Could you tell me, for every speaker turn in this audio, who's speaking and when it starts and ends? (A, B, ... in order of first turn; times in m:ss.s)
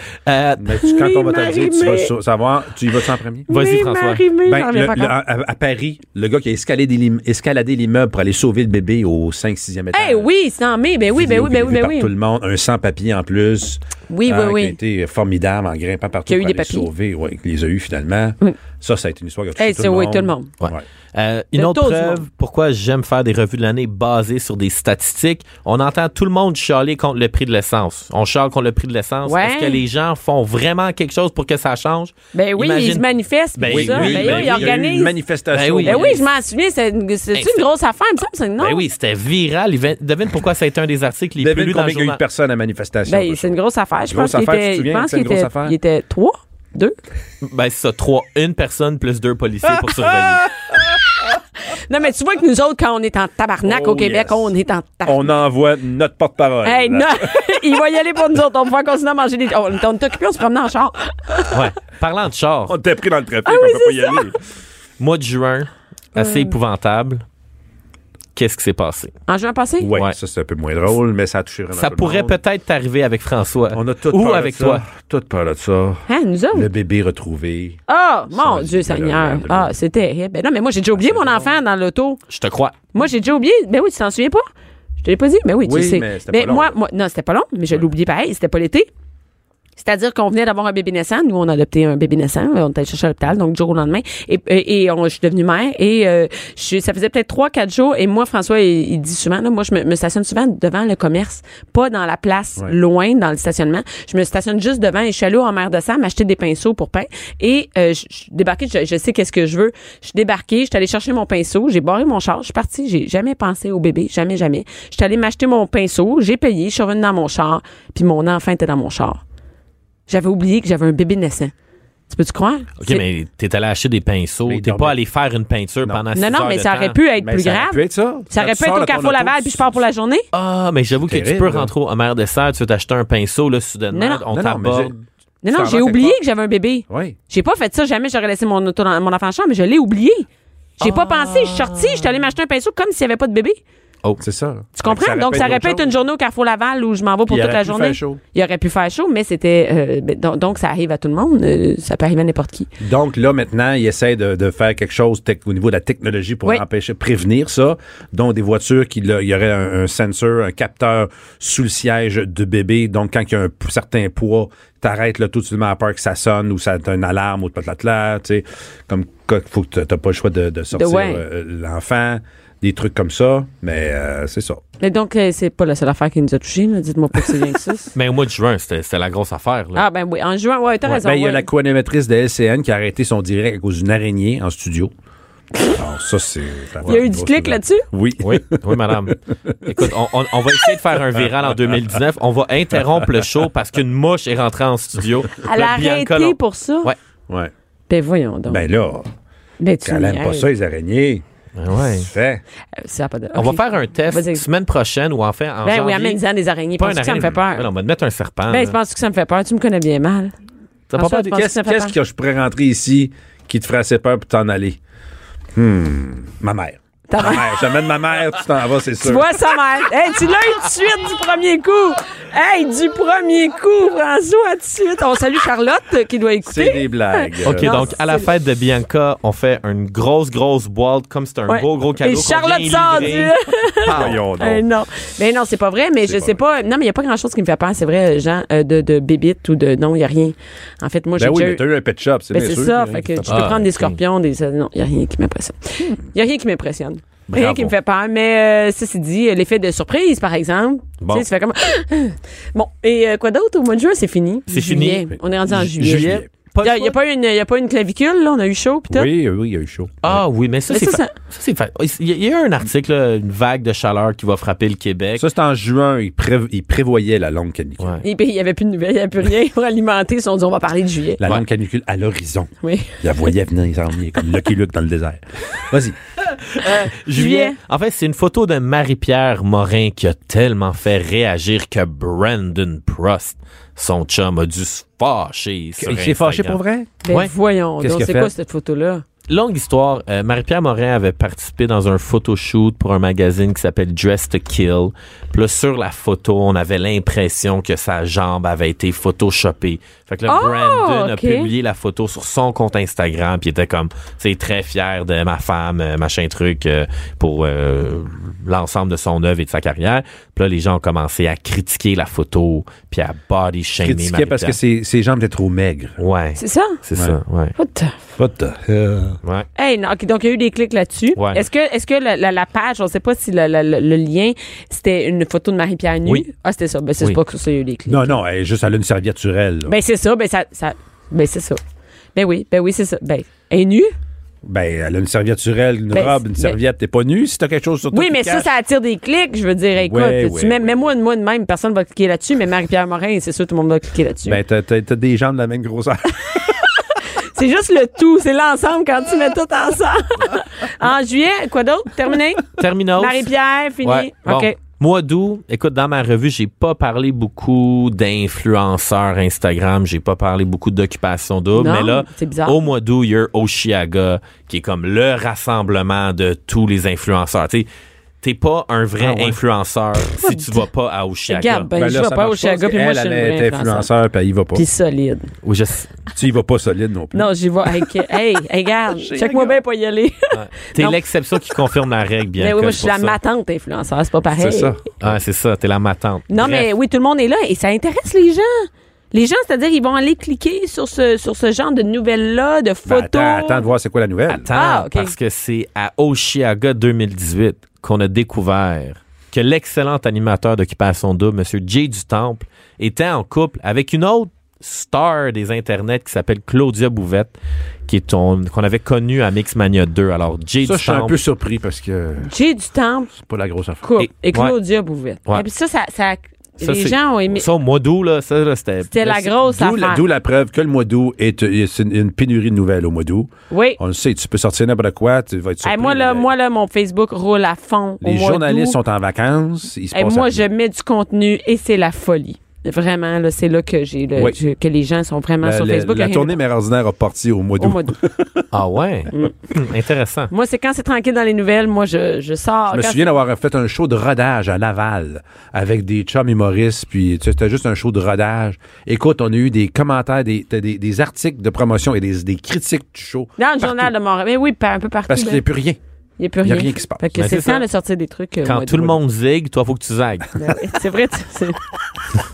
0:00.3-0:00.8 A
0:00.6-0:03.5 B
0:00.8-0:02.1 C
0:03.5-0:05.2 C
0:03.5-0:04.3 A
0:04.4-0:10.3 B
0:09.9-0:12.1 C
0:11.1-0:20.8 B
0:14.1-0:14.8 C
0:16.3-0:16.9 C
0:19.6-0:20.5 C
0:20.6-0:33.0 A
0:21.6-0:22.2 C
0:29.2-0:29.8 C
0:32.3-0:35.2 C
0:33.6-0:36.1 B
0:33.6-0:34.8 A
0:35.5-0:36.2 A
0:35.8-0:38.8 C
0:37.3-0:37.6 A
0:38.6-0:42.2 A
0:41.4-0:43.6 B
0:43.1-0:47.0 C
0:44.1-0:45.8 B
0:47.4-0:50.5 A
0:51.7-0:55.3 C
0:53.6-0:54.5 B
0:55.0-0:57.5 B
0:56.6-1:01.6 C
1:01.5-1:02.8 A
1:02.7-1:04.4 B
1:03.5-1:04.3 C
1:05.0-1:07.2 A
1:06.2-1:06.5 C
1:08.4-1:09.1 A
1:09.3-1:09.9 C
1:09.8-1:12.4 B
1:11.8-1:14.8 A
1:13.7-1:17.8 B
1:16.1-1:16.7 C
1:17.9-1:22.2 C
1:18.3-1:19.7 B
1:21.0-1:21.5 B
1:22.3-1:22.8 A
1:22.9-1:24.5 C
1:25.0-1:28.9 C
1:25.6-1:26.8 B
1:29.8-1:59.2 C
2:00.1-2:01.5 C
2:02.1-2:03.0 C
2:02.8-2:07.0 A
2:04.5-2:05.0 B
2:06.2-2:10.3 C
2:07.2-2:09.8 B
2:10.3-2:14.9 A
2:11.0-2:11.7 B
2:13.9-2:14.2 C
2:14.3-2:16.2 B
2:15.4-2:20.3 C
2:16.9-2:17.2 B
2:20.8-2:23.6 C
2:20.8-2:22.1 A
2:24.2-2:25.9 B
2:24.8-2:32.7 C
2:27.3-2:28.2 B
2:32.8-2:54.6 B
2:50.7-2:51.2 C
2:54.8-2:57.9 C
2:58.0-2:59.8 A
2:59.8-3:01.5 C
3:00.9-3:04.9 B
3:05.7-3:09.8 B
3:06.8-3:07.9 C
3:08.2-3:17.0 A
3:11.2-3:11.8 B
3:15.4-3:16.9 C
3:17.9-3:18.6 C
3:18.5-3:19.1 B
3:19.6-3:20.5 C
3:19.8-3:21.2 B
3:21.6-3:22.1 A
3:22.0-3:22.4 B
3:22.8-3:24.4 C
3:23.3-3:26.2 A
3:25.6-3:27.7 C
3:26.8-3:28.8 A
3:28.5-3:30.3 C
3:30.9-3:31.3 A
3:30.9-3:32.0 C
3:31.1-3:34.8 B
3:35.6-3:39.4 B
3:37.1-3:37.6 C
3:39.0-3:48.3 C
3:46.4-3:47.9 B
3:47.4-3:54.2 A
3:51.5-4:01.6 C
3:53.9-3:54.6 B
3:56.0-3:56.4 B
4:01.2-4:03.5 B
4:02.3-4:19.1 C
4:03.3-4:04.0 A
4:07.3-4:07.7 A
4:14.5-4:17.0 A
4:15.8-4:16.2 B
4:18.9-4:20.2 B
4:20.0-4:25.2 A
4:20.7-4:21.1 C
4:25.2-4:28.0 B
4:28.0-4:31.2 C
4:31.2-4:36.0 B
4:32.6-4:33.0 C
4:36.4-4:46.6 A
4:36.6-4:37.6 C
4:45.8-4:47.0 B
4:47.0-4:49.0 C
4:47.8-4:48.3 B
4:49.3-5:14.6 A
5:00.3-5:01.5 C
5:13.8-5:16.0 B
5:16.0-5:17.6 A
5:16.4-5:16.8 C
5:17.6-5:18.0 C
5:18.2-5:19.2 B
5:19.6-5:28.2 C
5:21.2-5:21.4 A
5:27.9-5:29.7 B
5:29.7-5:31.6 C
5:32.2-5:34.0 C
5:34.4-5:38.5 B
5:35.9-5:36.6 C
5:37.9-5:44.4 C
5:39.8-5:40.8 B
5:44.2-5:46.6 B
5:47.1-5:54.6 C
5:52.6-5:53.3 A
5:53.8-6:07.7 A
6:01.6-6:02.6 C
6:08.2-6:11.7 A
6:09.0-6:09.4 B
6:10.2-6:10.6 C
6:11.3-6:13.9 C
6:11.8-6:14.6 B
6:14.5-6:15.3 C
6:15.4-6:15.9 A
6:16.2-6:17.3 B
6:17.1-6:21.0 C
6:18.9-6:19.6 B
6:20.3-6:23.2 A
6:22.4-6:24.8 C
6:24.3-6:24.8 B
6:25.0-6:26.7 A
6:26.3-6:33.6 C
6:32.9-6:34.5 B
6:34.3-6:47.4 A
6:34.5-6:35.1 C
6:47.9-6:51.2 A
6:50.6-6:52.3 B
6:52.3-6:53.1 C
6:53.1-6:53.8 B
6:53.8-6:57.5 C
6:54.0-6:54.6 A
6:56.6-6:59.3 A
6:58.9-7:00.0 C
6:59.4-7:06.3 B
7:03.5-7:03.8 C
7:05.6-7:08.8 C
7:08.0-7:10.4 B
7:09.9-7:16.4 C
7:15.4-7:18.5 B
7:17.6-7:18.0 C
7:18.5-7:20.3 A
7:20.3-7:23.1 C
7:22.7-7:33.3 B
7:33.4-7:35.4 C
7:35.1-7:35.8 B
7:36.2-7:39.0 C
7:36.4-7:37.1 B
7:37.2-7:37.6 A
7:38.4-7:40.4 A
7:40.4-7:41.6 C